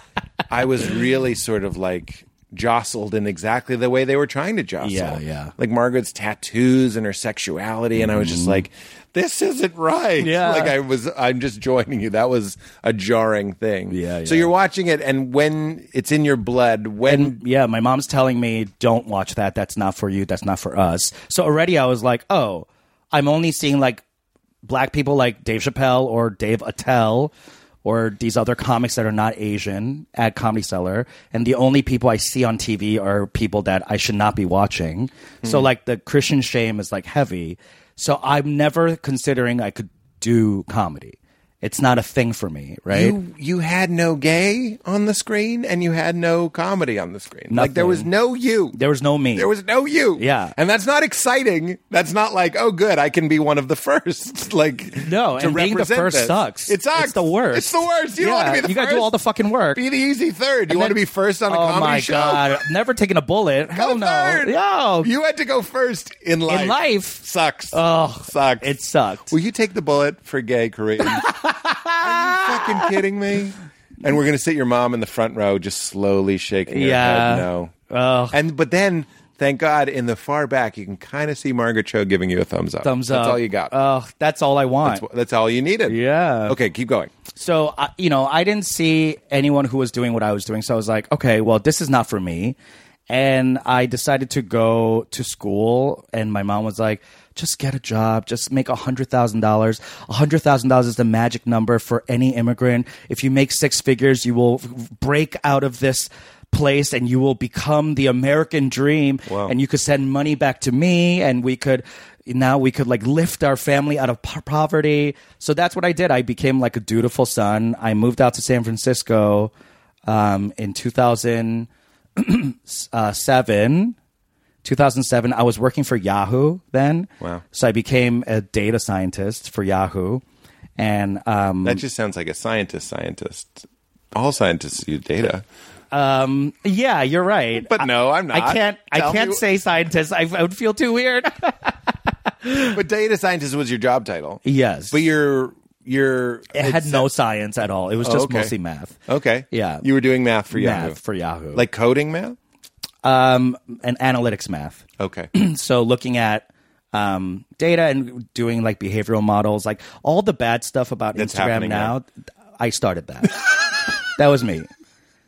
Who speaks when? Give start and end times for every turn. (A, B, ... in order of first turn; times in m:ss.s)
0:00.5-0:17.4 A
0:04.8-0:05.5 B
0:08.1-0:08.6 B
0:10.2-0:10.8 B
0:13.9-0:14.5 B
0:17.1-0:24.0 B
0:24.6-0:27.3 B
0:27.8-0:43.2 B
0:42.9-0:48.8 A
0:47.5-0:48.1 B
0:48.7-0:49.5 B
0:49.4-0:59.1 A
0:50.2-0:50.6 B
0:55.0-0:59.8 B
0:59.8-1:02.6 A
1:00.7-1:01.0 B
1:01.5-1:05.1 B
1:03.8-1:08.7 A
1:06.5-1:09.3 B
1:09.3-1:11.3 A
1:11.0-1:13.0 B
1:12.0-1:17.7 A
1:16.7-1:18.4 B
1:18.3-1:23.7 A
1:22.8-1:25.0 B
1:24.8-1:27.1 A
1:25.9-1:26.6 B
1:27.4-1:32.6 B
1:33.1-1:59.5 B
1:49.3-1:49.5 A
2:00.1-2:04.0 B
2:04.6-2:10.2 B
2:10.8-2:11.8 B
2:11.6-2:15.4 A
2:15.9-2:22.8 B
2:17.6-2:19.4 A
2:22.7-2:27.1 A
2:24.4-2:25.0 B
2:26.5-2:29.0 B
2:28.0-2:28.5 A
2:29.1-2:31.0 A
2:29.5-2:29.8 B
2:30.5-2:31.6 B
2:31.5-2:32.4 A
2:33.0-2:42.1 B
2:35.0-2:35.3 A
2:41.2-2:41.9 A
2:42.6-2:43.4 B
2:44.2-2:44.7 B